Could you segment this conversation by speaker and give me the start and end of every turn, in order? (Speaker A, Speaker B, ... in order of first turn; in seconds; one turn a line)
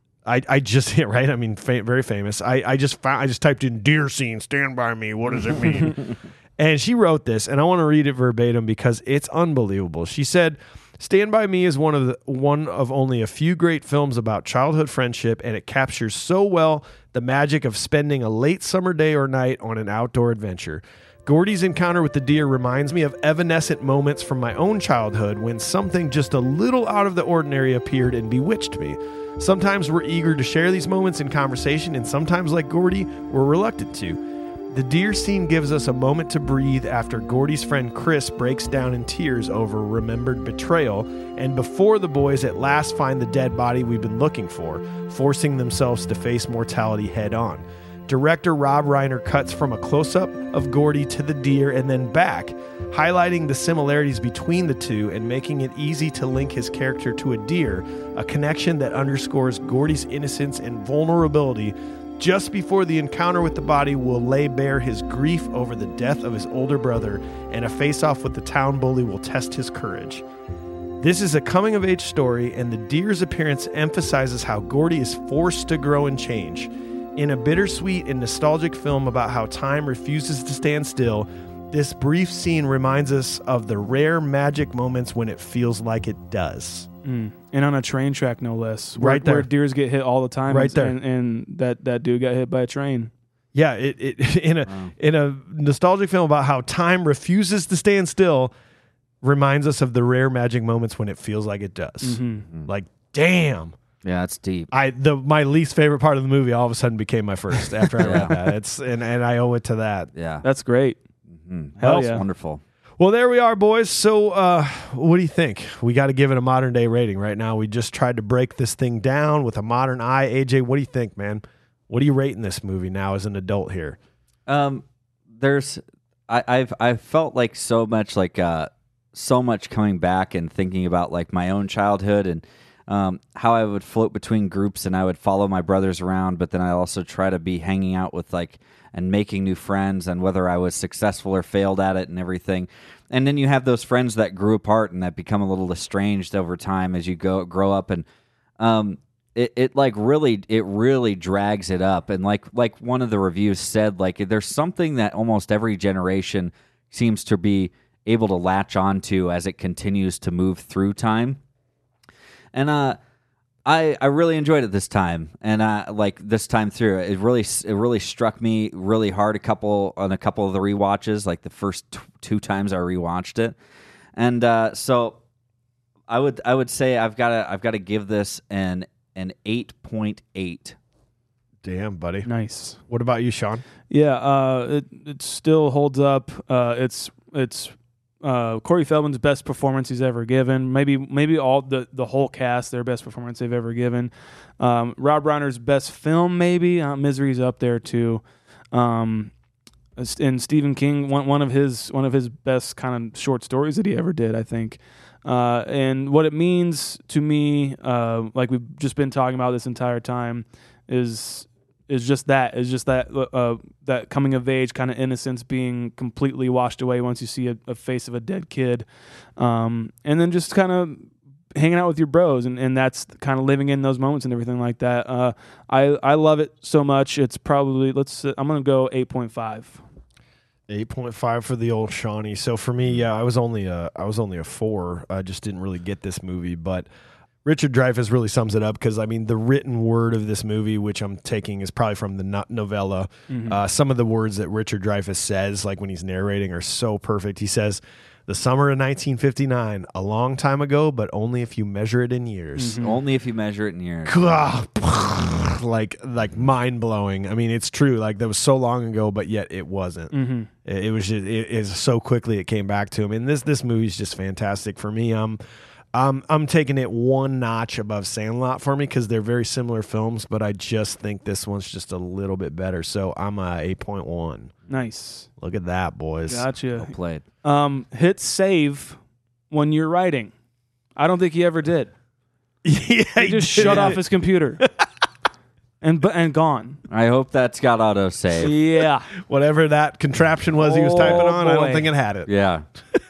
Speaker A: 0.3-34.2
Speaker A: 34.7-70.2
Speaker A: 71.0-86.9
Speaker B: 87.0-93.1
Speaker A: 89.0-89.5
Speaker A: 90.5-91.0
Speaker A: 93.5-98.5
Speaker A: 99.2-103.8
Speaker B: 102.0-102.5
Speaker C: 104.0-104.7
Speaker A: 104.7-110.1
Speaker C: 108.0-108.4
Speaker C: 110.2-110.5
Speaker B: 110.4-111.0
Speaker C: 111.3-112.6
Speaker B: 111.8-112.2
Speaker A: 113.0-124.0
Speaker C: 124.5-124.8
Speaker C: 125.4-148.1
Speaker C: 148.6-161.4
Speaker C: 162.5-163.0
Speaker C: 163.7-173.6
Speaker C: 174.2-175.2
Speaker C: 176.1-180.8
Speaker A: 181.6-182.3
Speaker B: 182.2-182.8
Speaker A: 182.9-183.6
Speaker B: 183.9-198.2
Speaker B: 198.7-199.3
Speaker B: 200.0-218.8
Speaker B: 219.4-229.8
Speaker A: 230.7-236.9
Speaker A: 237.4-252.8
Speaker B: 243.3-243.6
Speaker B: 252.6-253.0
Speaker C: 252.8-254.5
Speaker A: 254.1-260.1
Speaker B: 260.1-260.5
Speaker A: 260.6-265.4
Speaker A: 265.9-274.5
Speaker B: 274.7-275.3
Speaker A: 275.4-276.5
Speaker B: 276.3-279.0
Speaker C: 276.8-277.2
Speaker B: 279.5-280.3
Speaker B: 281.0-281.9
Speaker A: 282.6-284.0
Speaker B: 283.2-284.6
Speaker C: 283.6-284.0
Speaker A: 284.6-284.9
Speaker B: 285.8-286.8
Speaker C: 286.9-288.5
Speaker B: 288.4-289.1
Speaker A: 289.1-292.3
Speaker B: 290.6-291.9
Speaker C: 292.3-292.6